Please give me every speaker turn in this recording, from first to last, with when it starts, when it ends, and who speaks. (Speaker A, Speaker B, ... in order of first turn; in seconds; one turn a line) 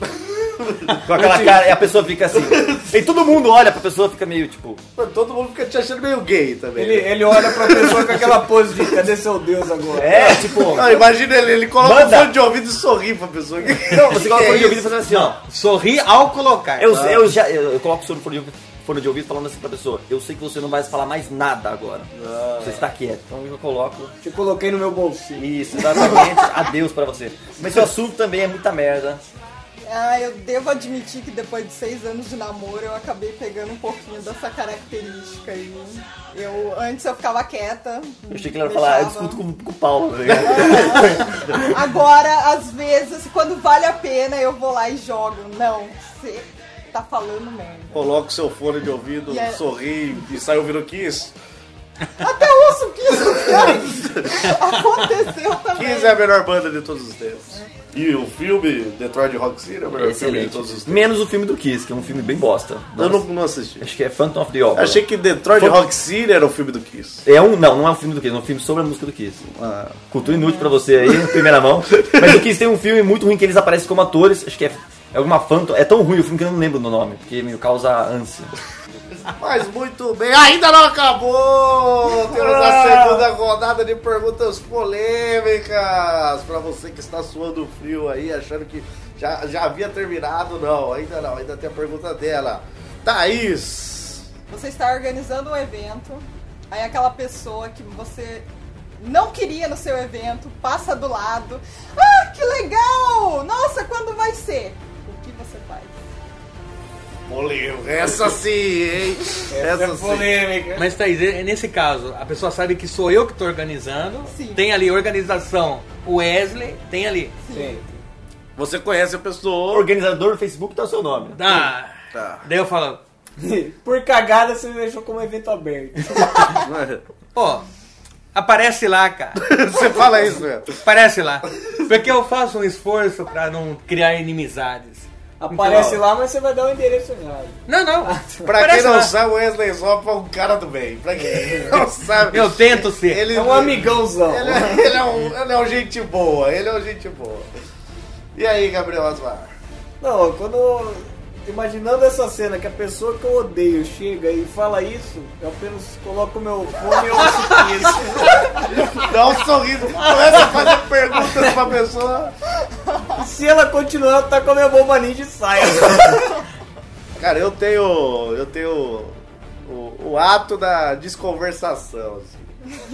Speaker A: 0.6-0.9
Speaker B: 0.9-4.8
Speaker C: 1.1-1.7
Speaker A: 2.4-2.9
Speaker A: 5.0-8.3
Speaker C: 6.8-10.4
Speaker B: 10.0-11.1
Speaker A: 10.1-15.1
Speaker B: 11.8-12.3
Speaker B: 13.9-15.4
Speaker D: 15.1-16.9
Speaker B: 16.8-22.1
Speaker A: 16.9-17.4
Speaker A: 22.1-22.9
Speaker B: 22.6-24.1
Speaker C: 24.2-25.4
Speaker B: 25.4-29.2
Speaker E: 29.9-39.4
Speaker B: 38.3-41.7
Speaker A: 40.3-40.8
Speaker E: 40.4-48.0
Speaker A: 47.9-51.3
Speaker E: 49.3-49.6
Speaker E: 52.2-56.2
Speaker A: 53.5-54.0
Speaker A: 55.7-61.1
Speaker B: 59.9-63.3
Speaker A: 63.0-63.9
Speaker B: 63.8-65.8
Speaker A: 64.7-67.2
Speaker B: 67.2-69.4
Speaker A: 69.5-70.0
Speaker B: 70.1-78.5
Speaker A: 71.0-72.4
Speaker A: 79.3-94.2
Speaker E: 94.5-98.5
Speaker E: 99.0-106.0
Speaker A: 107.3-110.4
Speaker C: 109.5-110.8
Speaker D: 110.8-117.3
Speaker E: 114.2-114.6
Speaker E: 117.4-117.8
Speaker C: 117.5-118.0
Speaker A: 118.6-119.9
Speaker B: 119.7-121.6
Speaker D: 121.3-123.0
Speaker A: 122.1-122.4
Speaker C: 123.4-126.6
Speaker A: 126.6-127.0
Speaker D: 127.3-127.7
Speaker D: 128.3-129.4
Speaker A: 129.4-130.8
Speaker D: 130.8-136.0
Speaker C: 135.4-138.5
Speaker D: 137.7-139.1
Speaker A: 138.4-147.5
Speaker C: 141.2-141.7
Speaker D: 142.3-143.3
Speaker C: 143.3-145.0
Speaker A: 148.3-149.5
Speaker C: 150.0-158.8
Speaker A: 158.8-162.3
Speaker C: 163.2-166.4
Speaker A: 167.2-172.5